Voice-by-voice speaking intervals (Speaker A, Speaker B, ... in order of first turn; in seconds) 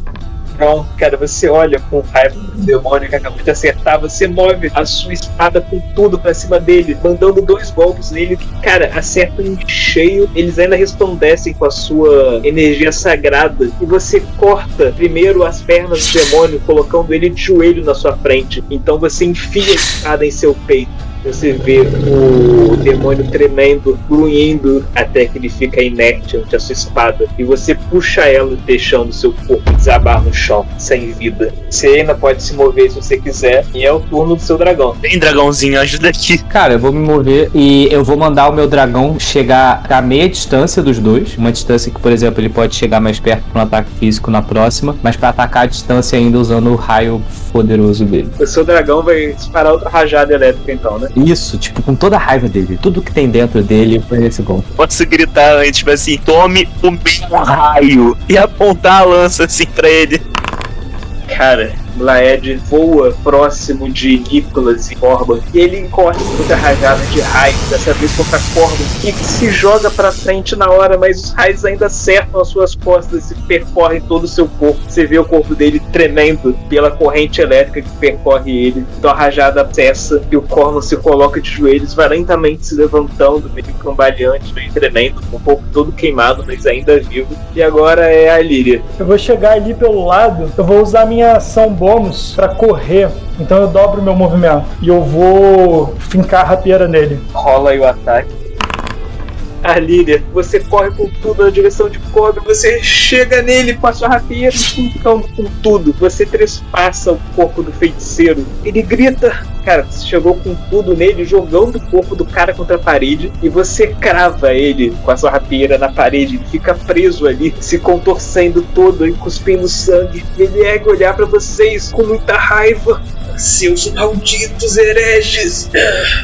Speaker A: 0.5-35.0, 48.4-51.1, 61.3-88.8, 97.3-98.3, 99.6-123.0
Speaker B: 35.0-36.4, 54.8-60.2
Speaker C: 36.5-48.3, 51.1-54.7
Speaker D: 89.0-97.2
Speaker E: 123.3-125.7